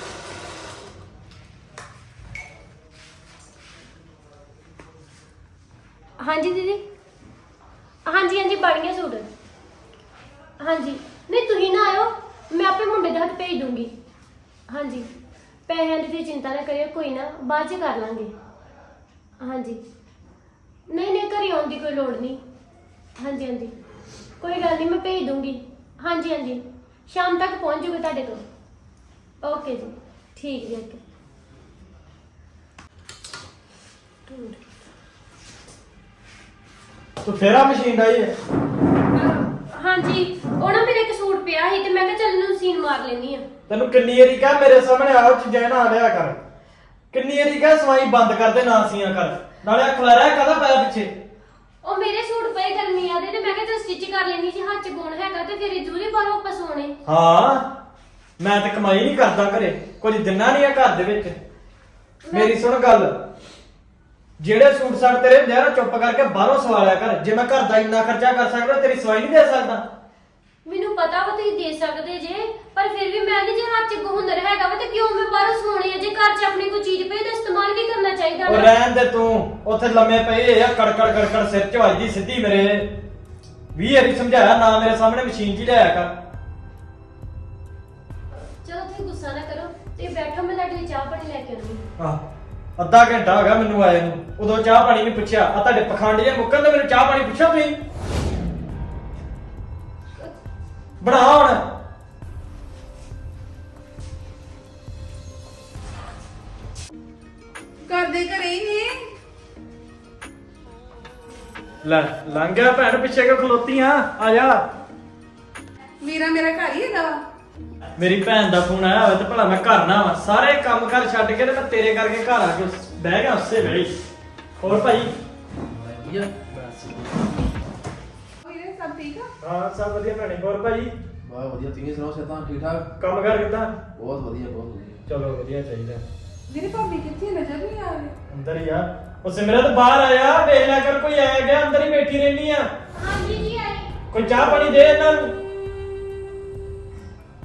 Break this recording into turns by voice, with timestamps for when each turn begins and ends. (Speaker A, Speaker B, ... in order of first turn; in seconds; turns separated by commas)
Speaker A: 6.2-6.8, Speaker A: 8.0-9.3, Speaker A: 10.6-13.9, Speaker A: 14.7-15.1, Speaker A: 15.7-18.3, Speaker A: 19.4-19.8, Speaker A: 20.9-22.4, Speaker A: 23.2-23.7, Speaker A: 24.4-28.4, Speaker A: 29.4-31.0, Speaker A: 34.3-34.6, Speaker B: 37.2-38.3, Speaker A: 39.1-43.5, Speaker B: 43.7-46.4, Speaker B: 47.1-51.2, Speaker A: 51.8-56.9, Speaker B: 57.0-57.7, Speaker B: 58.4-61.4, Speaker A: 62.2-62.5, Speaker B: 62.3-63.2, Speaker B: 64.4-69.8, Speaker A: 70.6-78.7, Speaker B: 78.5-83.0, Speaker B: 83.7-86.2, Speaker A: 88.3-91.8, Speaker B: 92.8-97.8, Speaker B: 101.0-101.6, Speaker C: 107.8-108.9, Speaker B: 111.8-114.6, Speaker C: 116.0-117.2, Speaker B: 118.0-124.0, Speaker B: 124.6-125.1, Speaker D: 125.7-126.3, Speaker B: 126.5-127.0, Speaker C: 128.4-129.3, Speaker B: 129.4-130.9, Speaker D: 131.2-132.9, Speaker B: 133.0-133.7, Speaker D: 133.9-135.0, Speaker B: 135.1-136.0, Speaker C: 136.5-138.1, Speaker B: 138.3-142.7, Speaker A: 142.9-143.9, Speaker B: 144.1-145.3